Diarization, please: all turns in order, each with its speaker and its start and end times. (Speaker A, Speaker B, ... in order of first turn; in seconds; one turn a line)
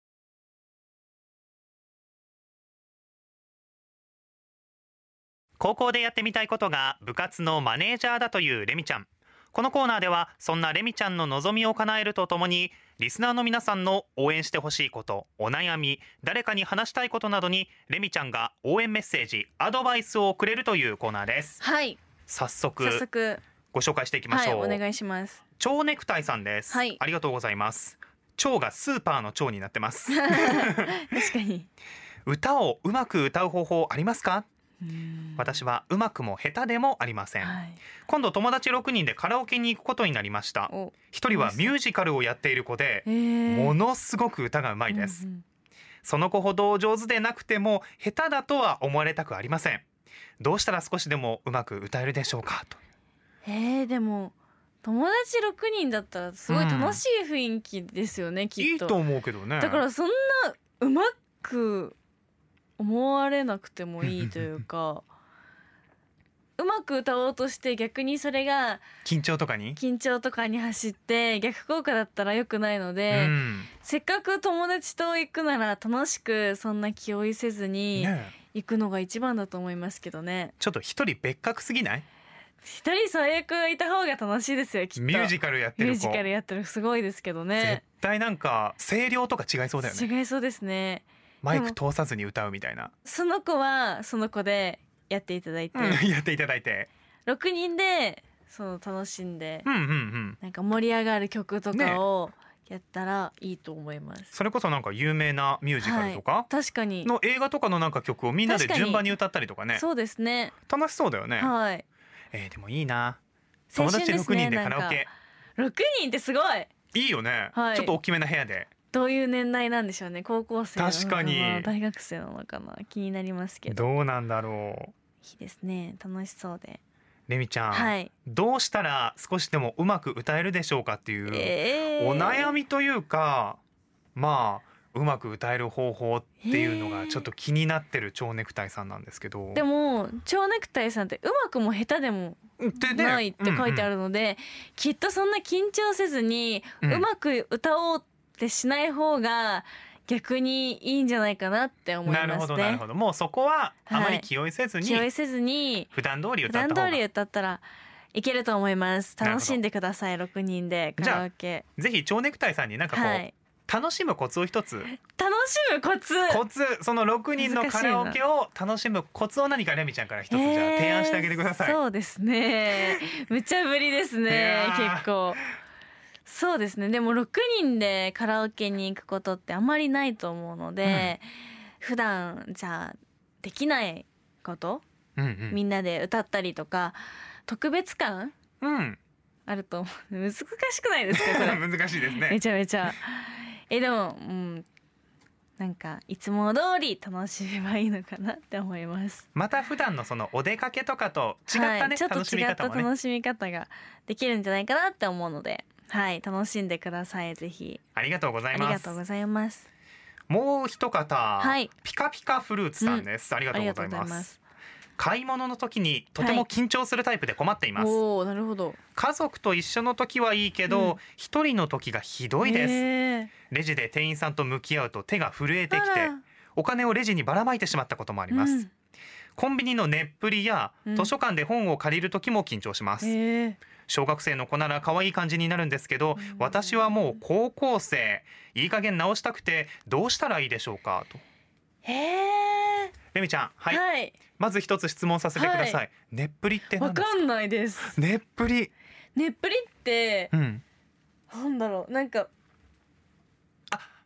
Speaker A: 5.6-21.6
Speaker B: 21.6-22.0
Speaker A: 22.3-23.1
Speaker B: 22.8-23.4
Speaker A: 23.7-24.8
Speaker B: 24.3-25.4
Speaker A: 25.6-30.9
Speaker B: 26.7-27.0
Speaker B: 30.1-31.7
Speaker A: 32.2-34.5
Speaker B: 34.9-35.4
Speaker A: 35.4-45.2
Speaker B: 37.4-37.8
Speaker B: 40.7-41.7
Speaker B: 43.0-43.8
Speaker B: 44.9-45.4
Speaker A: 46.0-49.8
Speaker A: 50.4-52.8
Speaker B: 53.4-59.0
Speaker A: 56.5-57.0
Speaker A: 58.6-59.8
Speaker B: 59.6-62.0
Speaker B: 62.8-65.0
Speaker A: 64.0-64.3
Speaker B: 66.6-68.8
Speaker A: 69.0-69.8
Speaker B: 69.8-80.5
Speaker A: 73.1-73.7
Speaker A: 77.9-78.3
Speaker A: 80.6-82.0
Speaker B: 82.6-87.8
Speaker A: 85.0-86.3
Speaker A: 87.5-90.1
Speaker B: 89.8-91.8
Speaker A: 91.4-92.9
Speaker B: 93.0-96.0
Speaker A: 95.7-96.9
Speaker B: 97.2-99.7
Speaker A: 99.6-100.4
Speaker B: 100.4-104.3
Speaker A: 101.7-102.0
Speaker A: 104.3-106.5
Speaker B: 105.8-107.1
Speaker A: 107.0-109.8
Speaker B: 108.4-109.1
Speaker B: 109.7-110.5
Speaker A: 110.7-111.5
Speaker B: 111.4-111.8
Speaker A: 112.3-113.2
Speaker B: 113.7-116.7
Speaker A: 113.7-115.1
Speaker A: 116.9-118.7
Speaker B: 117.5-117.9
Speaker B: 118.9-123.9
Speaker A: 120.8-121.7
Speaker A: 123.7-124.9
Speaker B: 125.2-126.8
Speaker A: 127.3-133.6
Speaker B: 127.7-128.1
Speaker B: 131.3-132.5
Speaker A: 134.1-139.6
Speaker B: 136.4-137.3
Speaker B: 139.5-152.8
Speaker A: 142.6-143.9
Speaker A: 152.0-155.1
Speaker B: 153.9-154.3
Speaker B: 154.8-155.9
Speaker A: 155.9-157.0
Speaker B: 156.4-161.6
Speaker A: 159.2-159.6
Speaker A: 161.0-164.9
Speaker B: 162.9-163.3
Speaker B: 164.9-166.4
Speaker A: 166.3-171.8
Speaker B: 167.4-168.2
Speaker B: 170.3-175.4
Speaker A: 174.3-175.1
Speaker B: 176.2-181.3
Speaker A: 180.8-181.1
Speaker B: 181.8-184.8
Speaker A: 185.2-185.6
Speaker B: 185.5-188.3
Speaker A: 188.6-189.0
Speaker B: 189.4-191.6
Speaker A: 191.1-192.4
Speaker B: 192.2-194.7
Speaker B: 195.6-199.2
Speaker A: 199.3-202.9
Speaker B: 201.5-207.8
Speaker A: 207.9-209.0
Speaker B: 208.5-209.7
Speaker A: 210.3-214.3
Speaker B: 211.4-211.7
Speaker B: 212.8-214.4
Speaker A: 215.0-218.0
Speaker B: 216.2-216.4
Speaker B: 217.8-218.8
Speaker A: 218.9-222.8
Speaker B: 220.7-220.9
Speaker B: 222.4-223.3
Speaker A: 223.5-228.7
Speaker B: 225.7-226.2
Speaker B: 228.3-228.7
Speaker A: 229.4-233.2
Speaker B: 233.0-233.6
Speaker A: 233.9-241.2
Speaker B: 236.2-236.9
Speaker B: 241.8-242.9
Speaker A: 243.1-243.8
Speaker B: 243.7-244.2
Speaker A: 244.4-247.2
Speaker B: 245.3-245.8
Speaker B: 246.8-248.0
Speaker A: 247.9-248.7
Speaker B: 249.1-250.3
Speaker A: 250.3-250.6
Speaker B: 251.3-252.3